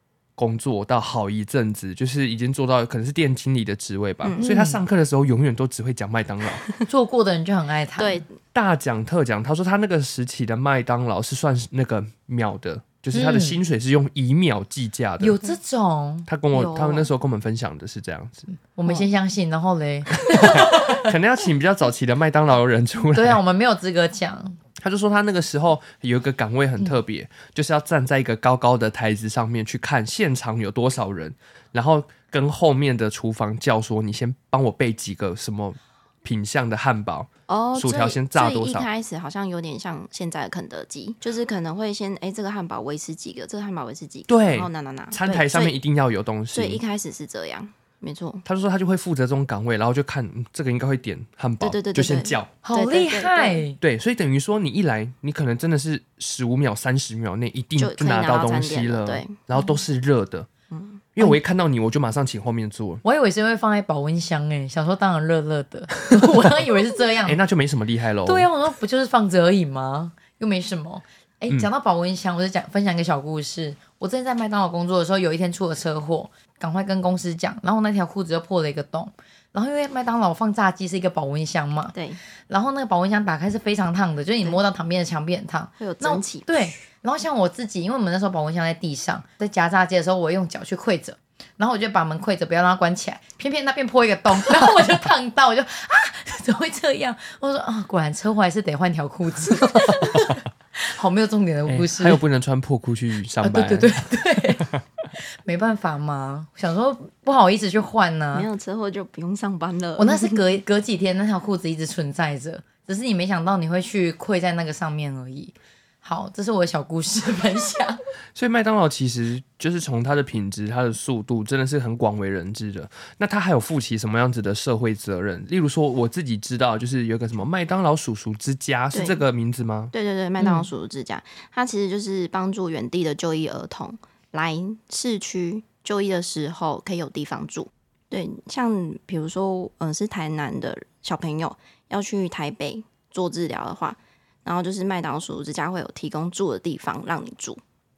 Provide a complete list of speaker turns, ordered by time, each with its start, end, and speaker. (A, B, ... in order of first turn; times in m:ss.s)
0:00.4-0:06.6 A
0:04.4-0:04.8 B
0:06.9-0:08.2 B
0:08.0-0:08.4 C
0:08.5-0:15.4 A
0:13.1-0:13.6 B
0:15.2-0:17.1 B
0:16.3-0:18.5 A
0:18.7-0:21.1 B
0:20.3-0:23.4 A
0:23.1-0:24.6 B
0:24.8-0:38.9 A
0:37.5-0:45.8 C
0:44.3-0:46.8 A
0:46.5-0:48.4 C
0:48.4-0:52.5 A
0:51.6-0:53.6 C
0:52.6-0:53.8 B
0:53.8-1:00.5 A
0:57.8-0:59.4 C
1:00.7-1:01.0 C
1:01.2-1:03.0 A
1:03.0-1:07.4 B
1:06.2-1:06.6 A
1:07.2-1:08.5 A
1:08.2-1:22.0 B
1:21.9-1:22.2 C
1:22.5-1:42.2 B
1:25.8-1:26.7 C
1:39.6-1:40.3 A
1:41.7-1:44.8 A
1:43.4-1:44.7 B
1:45.4-1:48.5 B
1:48.3-1:50.4 C
1:50.0-1:58.0 B
1:58.3-2:09.9 A
2:08.9-2:09.2 C
2:09.9-2:27.6 C
2:10.4-2:10.7 B